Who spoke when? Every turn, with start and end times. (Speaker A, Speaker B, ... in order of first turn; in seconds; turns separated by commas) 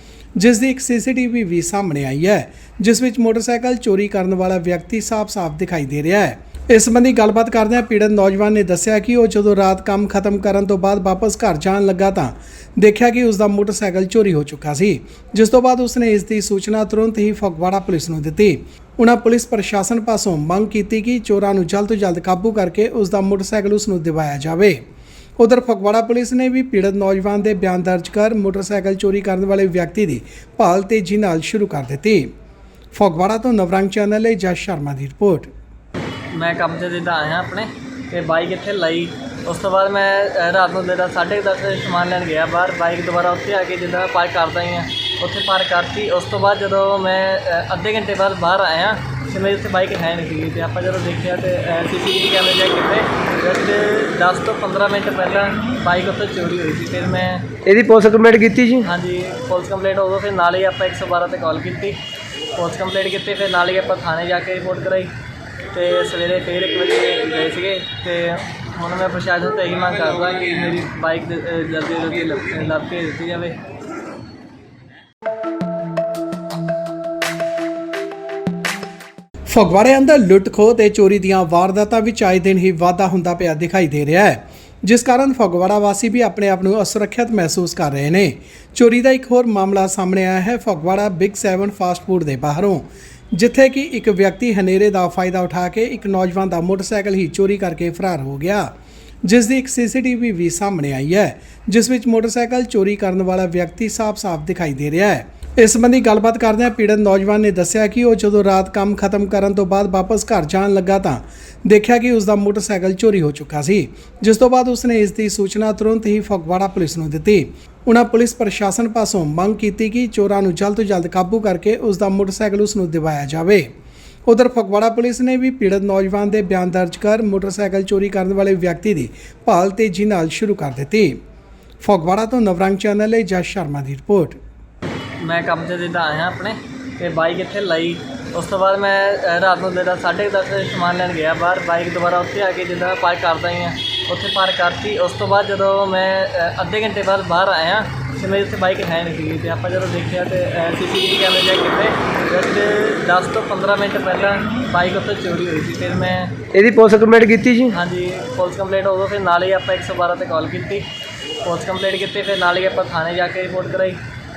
Speaker A: 0.4-24.8, Speaker A: 25.4-32.3, Speaker A: 32.9-35.5, Speaker B: 36.3-57.5, Speaker C: 57.6-58.9, Speaker B: 58.8-62.0, Speaker B: 62.5-65.1, Speaker B: 65.7-73.6, Speaker A: 79.5-98.7, Speaker A: 99.2-123.7, Speaker A: 124.2-131.2, Speaker A: 131.8-134.4, Speaker B: 135.2-156.4, Speaker C: 156.5-157.8, Speaker B: 157.7-164.0